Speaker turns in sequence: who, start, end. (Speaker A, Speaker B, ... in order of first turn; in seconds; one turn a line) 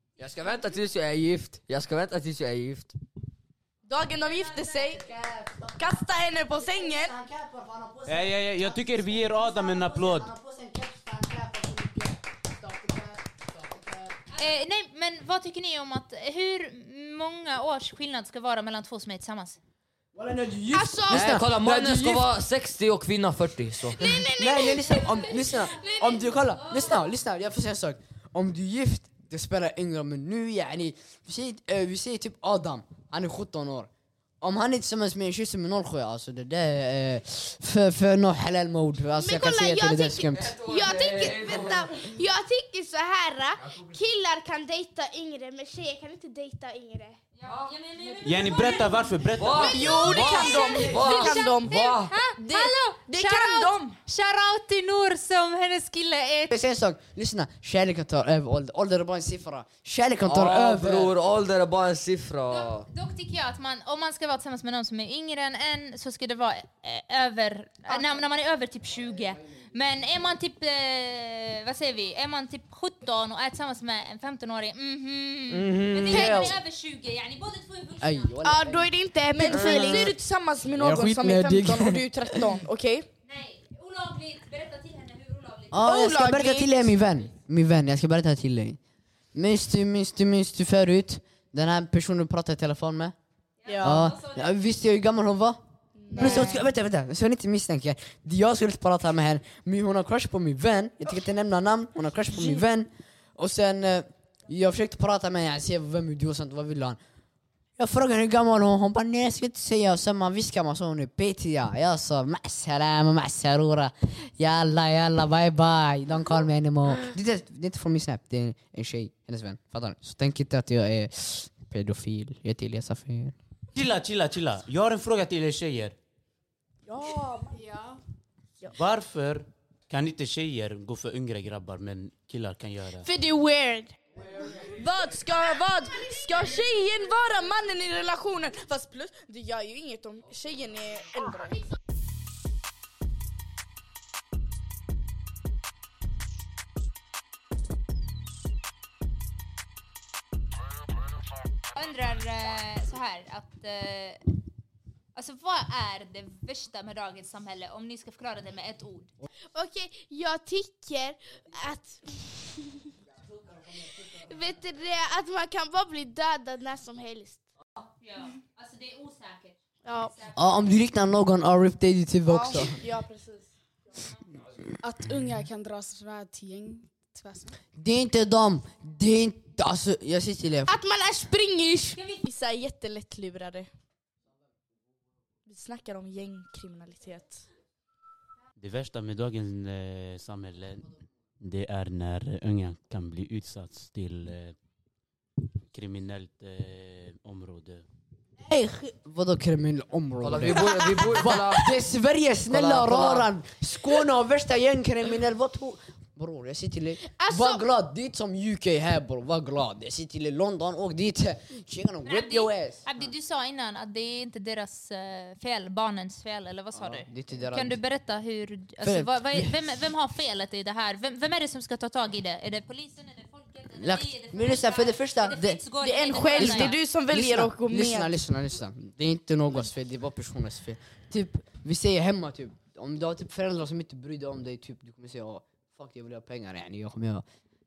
Speaker A: 0.2-2.9
Speaker B: 3.9-5.1
Speaker C: 4.2-4.9
Speaker D: 5.0-6.0
Speaker B: 5.8-7.1
Speaker D: 6.7-14.2
Speaker E: 8.1-10.3
Speaker C: 14.3-19.6
Speaker D: 20.1-22.3
Speaker F: 20.7-21.4
Speaker A: 21.1-24.0
Speaker F: 23.9-25.8
Speaker D: 24.0-33.9
Speaker C: 25.1-27.1
Speaker D: 34.4-40.6
Speaker F: 39.2-47.2
Speaker A: 40.4-41.9
Speaker A: 43.6-43.9
Speaker C: 47.4-50.0
Speaker A: 47.5-47.7
Speaker E: 48.2-50.2
Speaker A: 49.3-52.1
Speaker B: 49.7-54.0
Speaker F: 50.1-50.4
Speaker C: 50.6-56.5
Speaker D: 56.5-61.1
Speaker A: 60.2-62.9
Speaker C: 62.5-78.3
Speaker D: 75.5-76.5
Speaker F: 76.1-76.5
Speaker D: 78.0-78.9
Speaker F: 78.4-80.2
Speaker B: 79.3-83.1
Speaker D: 79.6-80.0
Speaker D: 80.8-82.5
Speaker C: 83.3-86.0
Speaker D: 85.7-88.8
Speaker B: 85.8-86.9
Speaker D: 89.3-93.2
Speaker C: 93.6-94.5
Speaker B: 93.7-94.1
Speaker D: 93.8-95.6
Speaker B: 96.0-96.7
Speaker D: 96.2-107.0
Speaker D: 107.8-123.3
Speaker E: 123.8-126.0
Speaker B: 126.9-127.6
Speaker G: 127.5-128.0
Speaker E: 128.7-133.1
Speaker F: 133.0-133.9
Speaker B: 134.6-141.6
Speaker C: 151.8-154.2
Speaker C: 155.2-159.1
Speaker F: 159.6-162.8
Speaker F: 164.1-167.4
Speaker C: 168.0-170.8
Speaker F: 169.8-170.1
Speaker D: 170.3-172.8
Speaker B: 172.3-173.5
Speaker G: 174.8-177.6
Speaker D: 177.8-180.8
Speaker F: 180.7-182.0
Speaker C: 182.0-182.2
Speaker B: 182.2-183.7
Speaker B: 185.5-187.4
Speaker E: 188.6-194.6
Speaker E: 195.7-197.8
Speaker D: 198.4-213.1
Speaker A: 200.2-201.9
Speaker A: 202.5-203.3
Speaker F: 207.2-207.7
Speaker C: 212.0-226.8
Speaker D: 216.7-217.8
Speaker D: 218.8-219.6
Speaker D: 223.8-225.6
Speaker B: 225.8-228.1
Speaker D: 226.3-237.2